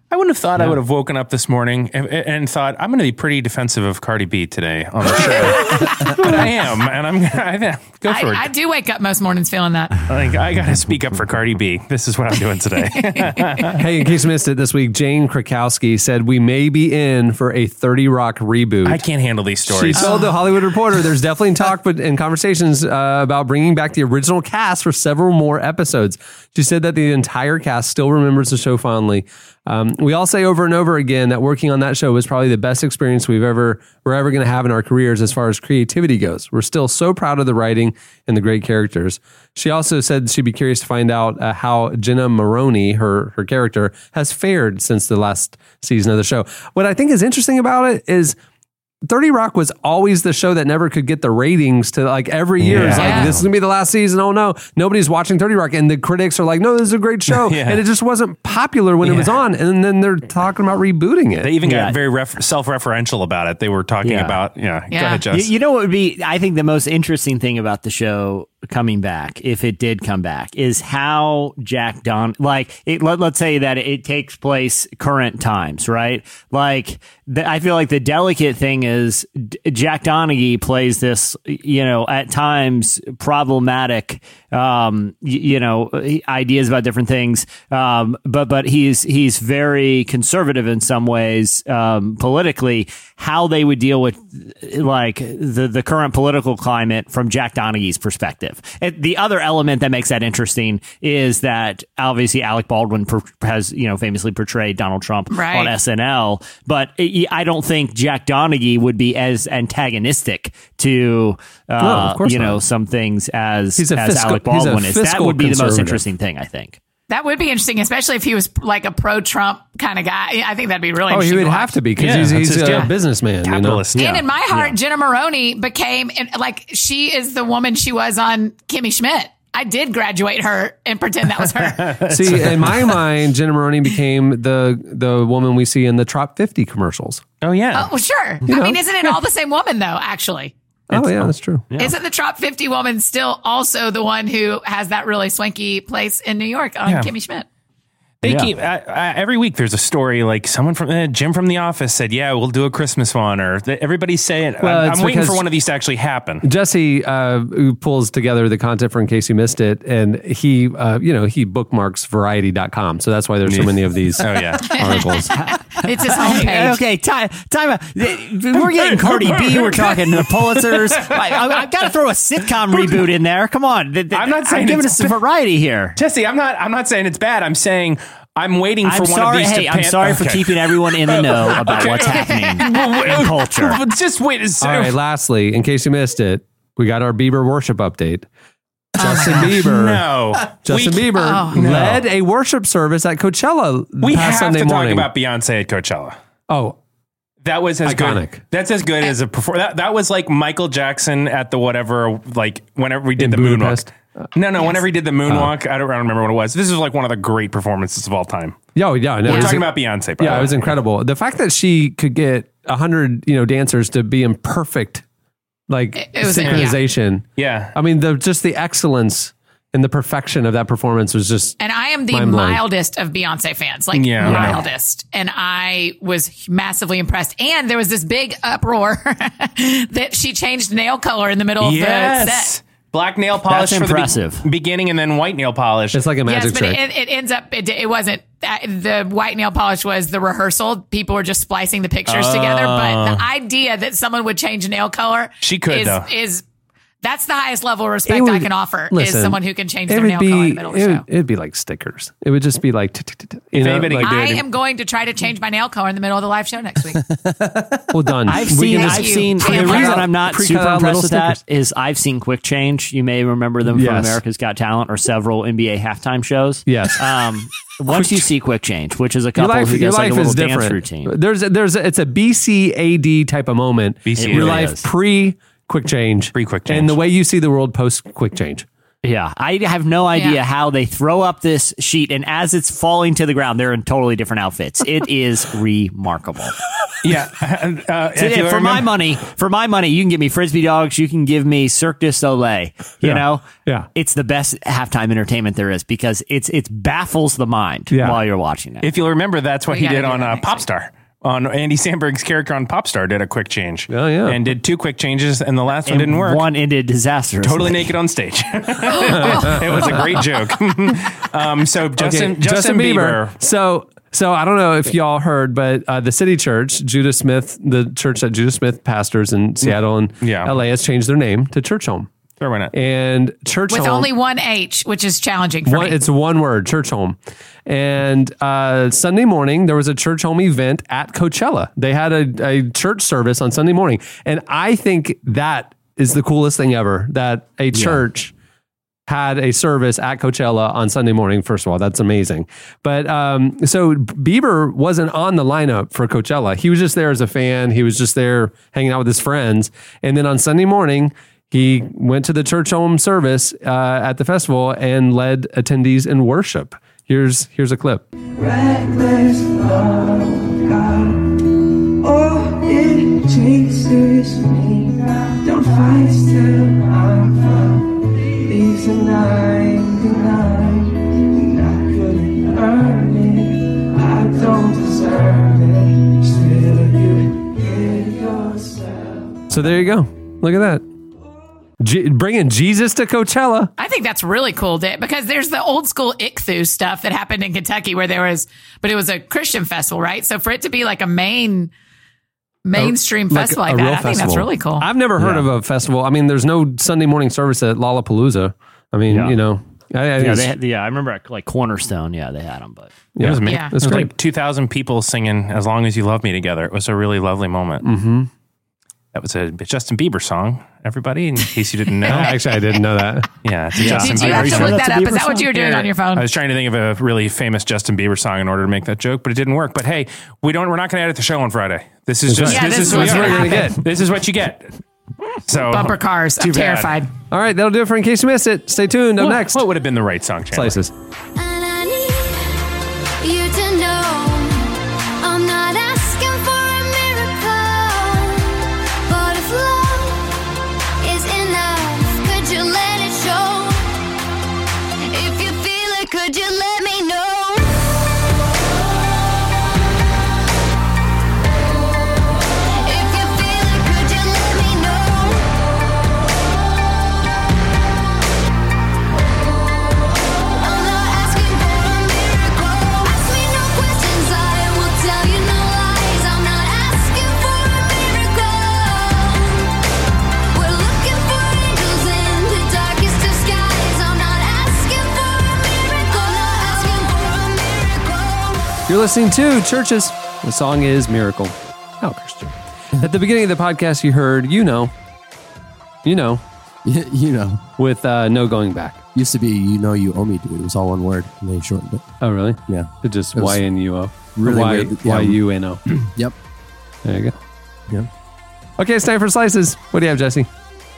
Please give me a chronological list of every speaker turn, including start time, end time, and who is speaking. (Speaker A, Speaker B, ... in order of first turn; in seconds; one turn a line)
Speaker A: 0.1-8.5
Speaker B: 5.2-6.2
Speaker B: 8.1-10.0
Speaker A: 10.1-13.8
Speaker B: 13.1-13.7
Speaker C: 13.8-19.0
Speaker A: 18.8-20.2
Speaker C: 19.6-48.4
Speaker B: 19.9-20.3
Speaker C: 49.0-61.5
Speaker A: 52.6-53.4
Speaker B: 52.9-53.3
Speaker A: 57.3-57.8
Speaker A: 59.0-59.3
Speaker A: 61.4-65.5
Speaker D: 61.6-62.0
Speaker D: 64.0-64.4
Speaker B: 64.9-65.2
Speaker D: 65.3-116.8
Speaker B: 105.3-105.7
Speaker C: 111.8-112.6
Speaker C: 113.8-116.0
Speaker B: 117.1-121.7
Speaker C: 121.1-123.8
Speaker A: 122.0-122.9
Speaker A: 123.4-124.7
Speaker B: 123.9-132.0
Speaker A: 131.5-133.0
Speaker C: 132.1-137.2
Speaker A: 137.4-137.9
Speaker B: 137.7-140.5
Speaker C: 138.5-138.8
Speaker C: 140.9-141.7
Speaker D: 140.9-141.9
Speaker B: 141.8-147.4
Speaker A: 146.8-147.1
Speaker A: 148.2-156.4
Speaker D: 148.2-148.5
Speaker C: 154.6-155.4
Speaker C: 156.4-165.3
Speaker A: 163.4-164.9
Speaker B: 164.7-165.2
Speaker D: 165.3-176.0
Speaker B: 165.8-166.8
Speaker A: 168.5-171.6
Speaker A: 174.1-175.2
Speaker A: 175.9-184.9
Speaker D: 178.8-183.8
Speaker B: 182.2-182.7
Speaker C: 184.6-188.3
Speaker C: 189.0-195.1
Speaker B: 189.0-189.6
Speaker A: 189.3-192.0
Speaker B: 191.2-191.6
Speaker A: 194.0-196.2
Speaker C: 196.5-196.8
Speaker A: 197.4-208.6
Speaker C: 197.8-198.4
Speaker C: 203.2-203.9
Speaker C: 205.3-205.5
Speaker C: 208.7-215.0
Speaker A: 209.2-210.7
Speaker B: 209.3-209.5
Speaker C: 215.7-221.6
Speaker B: 216.0-216.8
Speaker A: 216.4-216.7
Speaker A: 217.4-217.7
Speaker B: 221.6-232.5
Speaker C: 222.1-222.6
Speaker A: 223.9-224.6
Speaker D: 224.2-224.6
Speaker A: 231.6-236.0
Speaker D: 233.5-234.4
Speaker C: 235.9-236.8
Speaker B: 236.2-246.4
Speaker A: 242.1-243.2
Speaker A: 245.4-246.1
Speaker B: 247.0-251.0
Speaker C: 248.1-254.2
Speaker A: 253.5-254.4
Speaker B: 254.0-257.0
Speaker E: 257.3-257.8
Speaker C: 257.9-261.4
Speaker D: 258.3-271.1
Speaker B: 258.5-260.1
Speaker C: 263.7-264.2
Speaker C: 266.6-267.0
Speaker C: 267.9-268.3
Speaker C: 269.4-278.6
Speaker A: 274.1-274.7
Speaker D: 274.2-274.9
Speaker A: 276.3-276.9
Speaker D: 279.0-286.6
Speaker B: 280.1-280.4
Speaker A: 287.0-288.9
Speaker D: 288.1-298.9
Speaker C: 293.0-293.9
Speaker C: 297.9-298.2
Speaker A: 298.8-306.5
Speaker B: 299.7-300.5
Speaker C: 303.9-304.4
Speaker D: 305.9-307.9
Speaker A: 307.4-313.3
Speaker B: 308.9-309.6
Speaker C: 309.3-309.8
Speaker C: 312.0-322.1
Speaker A: 320.2-320.5
Speaker A: 322.4-322.7
Speaker C: 322.7-324.1
Speaker B: 323.7-326.0
Speaker C: 325.6-338.3
Speaker D: 337.7-338.0
Speaker C: 339.1-358.0
Speaker F: 358.4-361.4
Speaker F: 362.0-379.5
Speaker C: 379.5-380.8
Speaker C: 381.8-383.7
Speaker B: 383.8-391.7
Speaker B: 392.6-394.9
Speaker C: 392.7-400.5
Speaker D: 395.2-395.5
Speaker D: 399.1-399.4
Speaker D: 400.2-402.9
Speaker C: 403.1-404.1
Speaker A: 403.2-407.9
Speaker B: 403.4-403.8
Speaker C: 407.8-408.3
Speaker A: 409.1-412.4
Speaker C: 412.1-413.3
Speaker B: 412.1-412.3
Speaker A: 413.4-414.8
Speaker D: 413.8-415.9
Speaker B: 413.8-416.3
Speaker A: 416.1-424.7
Speaker C: 422.3-423.8
Speaker B: 422.5-423.7
Speaker A: 425.5-426.9
Speaker B: 425.7-427.1
Speaker C: 427.3-429.6
Speaker A: 429.2-430.8
Speaker C: 430.5-430.9
Speaker G: 431.4-432.6
Speaker G: 433.2-438.5
Speaker G: 439.1-440.2
Speaker G: 441.0-443.9
Speaker G: 445.1-447.9
Speaker G: 452.7-455.5
Speaker G: 460.4-469.7
Speaker G: 470.5-478.8
Speaker C: 478.9-484.9
Speaker C: 486.0-486.4
Speaker E: 486.8-487.6
Speaker C: 487.8-489.0
Speaker E: 489.1-492.1
Speaker C: 492.2-495.8
Speaker E: 492.7-493.6
Speaker E: 494.3-495.4
Speaker E: 496.0-496.3
Speaker C: 497.0-497.3
Speaker C: 498.8-500.5